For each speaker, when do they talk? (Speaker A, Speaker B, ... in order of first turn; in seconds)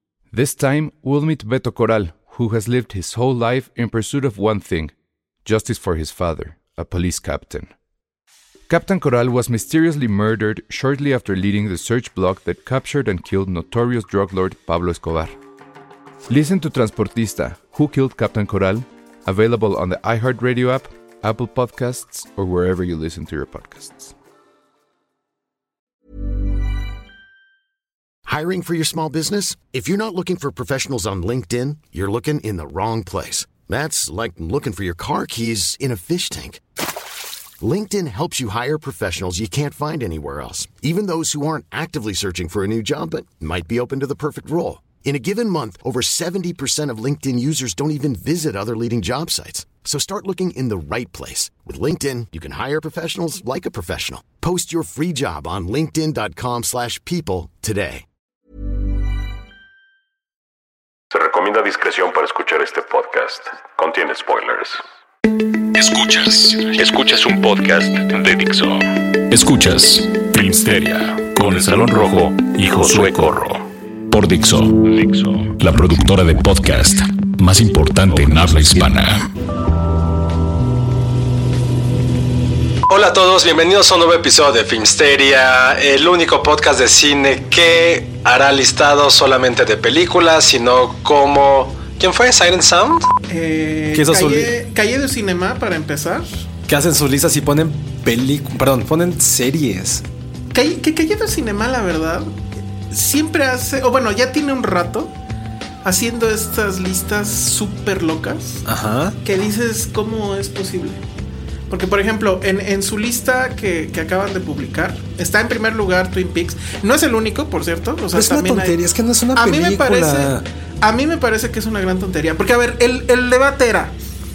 Speaker A: 0.3-4.9, 5.5-7.7, 8.7-15.3, 16.3-24.1
Speaker B: 28.3-36.6, 37.6-58.0
Speaker C: 61.1-64.8, 65.7-79.3
Speaker D: 82.9-93.1, 93.9-94.6, 96.7-100.0, 108.7-109.2, 118.1-120.5
Speaker E: 93.3-96.4, 100.5-102.3, 102.9-105.1, 105.8-108.7, 109.2-111.0, 111.7-118.8, 119.3-123.9